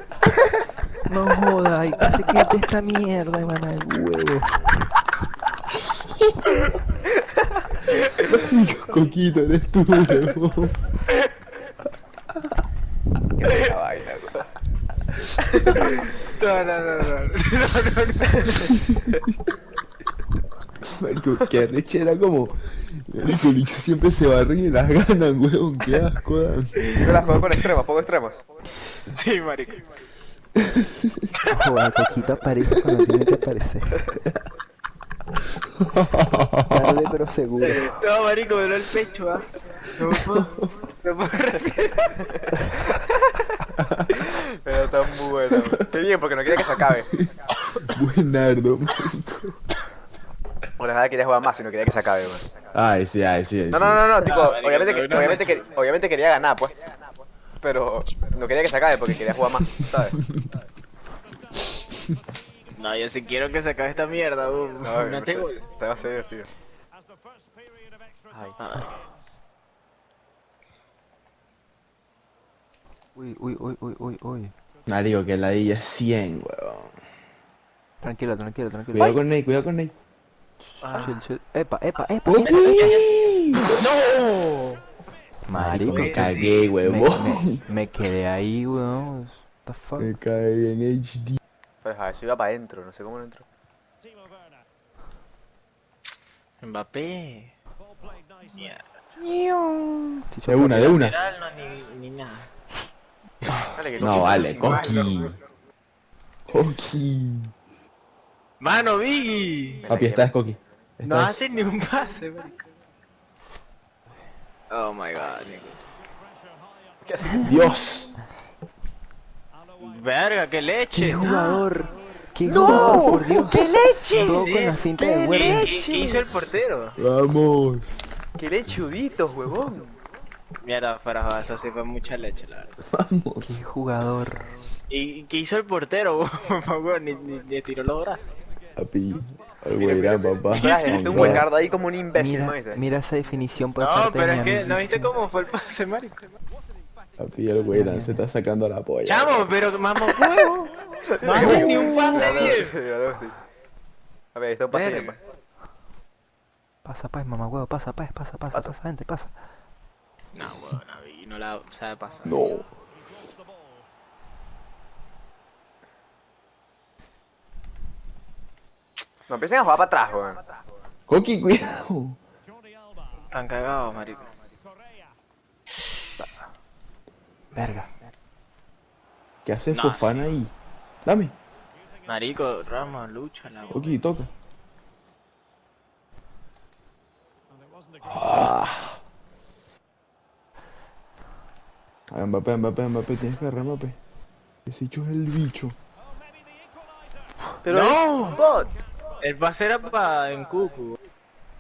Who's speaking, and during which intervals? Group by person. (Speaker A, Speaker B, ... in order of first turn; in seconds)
Speaker A: 1.1-4.7, 31.5-34.1, 36.7-37.9, 73.2-74.5, 78.0-79.2, 80.6-83.0, 85.5-90.1, 99.3-101.0, 120.9-125.8, 133.4-134.5, 141.1-141.5, 142.2-145.1, 147.7-148.2, 151.4-151.8, 156.8-159.3, 177.5-177.9
Speaker B: 8.2-10.8, 18.7-19.3, 20.9-26.8, 30.6-31.2, 35.7-37.0, 40.1-40.7, 43.8-44.1, 47.8-49.6, 52.7-54.2, 74.9-77.0, 78.9-79.9, 82.3-83.8, 85.5-87.6, 90.0-91.4, 100.5-101.2, 104.0-105.3, 106.5-107.5, 109.9-111.4, 117.4-118.1, 122.5-123.3, 127.0-128.2, 132.9-133.6, 138.8-141.4, 147.2-149.5, 162.2-162.8, 171.1-172.2, 179.5-180.5, 181.0-181.3, 183.7-184.3, 188.1-189.0, 192.1-194.0, 194.7-195.8
Speaker C: 13.4-14.5, 15.5-15.8, 27.0-28.4, 42.9-43.2, 44.2-47.1, 50.8-52.5, 53.7-56.9, 57.6-60.2, 64.8-66.5, 68.3-68.6, 91.8-93.5, 103.7-105.1, 109.9-110.3, 117.0-117.7, 122.5-126.3, 128.4-129.9, 139.8-142.8, 150.2-150.4, 151.1-153.4, 154.3-155.2, 169.3-170.4, 197.7-198.7
Speaker D: 15.8-18.8, 26.8-27.4, 29.1-29.9, 37.6-42.3, 54.2-55.6, 62.8-65.6, 68.6-69.0, 80.8-81.2, 82.4-84.8, 85.9-86.6, 96.6-97.5, 98.5-98.8, 100.7-102.5, 104.0-105.2, 108.6-109.9, 111.0-112.7, 114.7-115.8, 119.8-121.7, 124.1-127.0, 130.6-132.8, 134.9-138.3, 140.5-141.0, 143.8-146.2, 149.1-152.8, 154.7-155.2, 160.3-162.4, 173.3-174.3, 179.7-180.2, 182.1-183.9, 197.7-198.4, 199.2-201.0